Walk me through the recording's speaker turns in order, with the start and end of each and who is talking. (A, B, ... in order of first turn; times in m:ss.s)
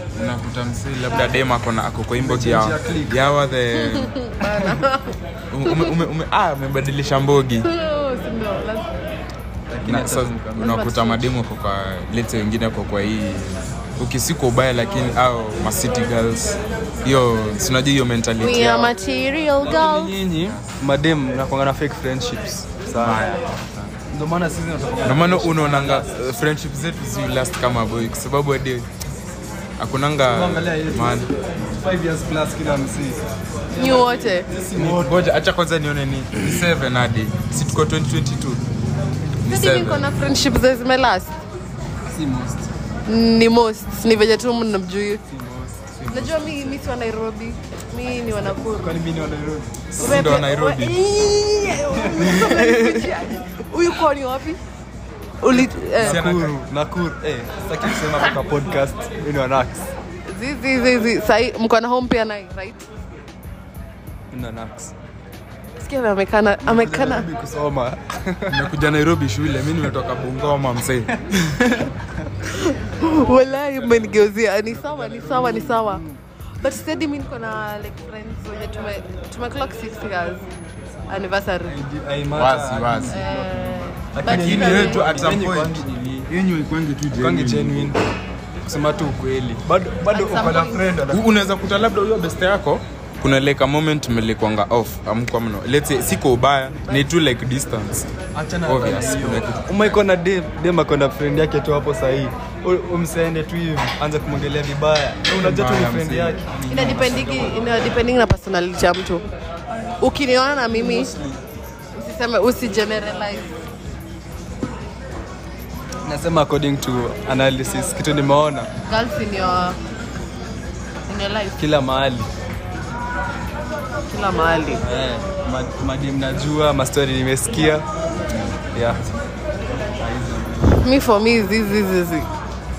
0:00.1-0:04.2 A
0:02.2-0:03.2 B
0:03.8-0:05.9 C
0:05.5-0:07.7 A
0:07.6-0:08.9 C
0:09.7-0:10.9 B
0:09.8-0:18.9 A
0:10.6-0:11.2 C
0:18.4-0:20.2 C
0:19.6-0:23.2 B
0:20.4-0:20.8 A
0:22.9-0:23.9 A
0:24.1-0:26.2 B
0:25.0-0:28.9 A
0:29.8-0:31.3 A
0:30.3-0:35.2 B
0:33.8-0:34.5 C
0:34.7-0:38.6 A
0:39.4-0:41.4 C
0:39.4-0:40.1 A
0:42.0-0:42.7 B
0:43.1-0:45.2 C
0:45.3-0:45.7 B
0:45.7-0:46.8 A
0:46.1-0:48.9 C
0:48.7-0:50.2 B
0:50.0-0:51.0 A
0:50.0-0:54.6 C
0:51.9-0:53.3 B
0:55.4-0:56.2 C
0:55.5-0:56.6 A
0:56.0-0:59.9 B
1:00.3-1:02.8 C
1:04.3-1:04.9 B
1:05.8-1:07.3 C
1:06.6-1:08.6 B
1:08.5-1:11.1 A
1:11.1-1:12.3 B
1:12.4-1:16.0 C
1:14.6-1:16.2 B
1:16.6-1:20.4 C
1:21.1-1:21.8 C
1:21.6-1:26.3 B
1:22.3-1:23.2 A
1:23.1-1:25.2 C
1:24.2-1:28.0 A
1:27.1-1:28.0 B
1:28.6-1:31.2 B
1:30.1-1:30.8 C
1:31.1-1:38.1 A
1:38.3-1:47.7 B
1:38.6-1:40.0 A
1:45.2-1:47.1 A
1:46.7-1:49.2 C
1:50.0-1:51.1 C
1:50.7-1:51.4 B
1:51.9-1:53.5 C
1:56.0-1:58.7 B
1:58.9-1:59.8 C
2:01.1-2:01.6 C
2:01.6-2:02.3 B
2:04.1-2:04.8 C
2:04.8-2:07.8 B
2:08.7-2:09.0 B
2:10.0-2:10.8 B
2:10.8-2:12.3 C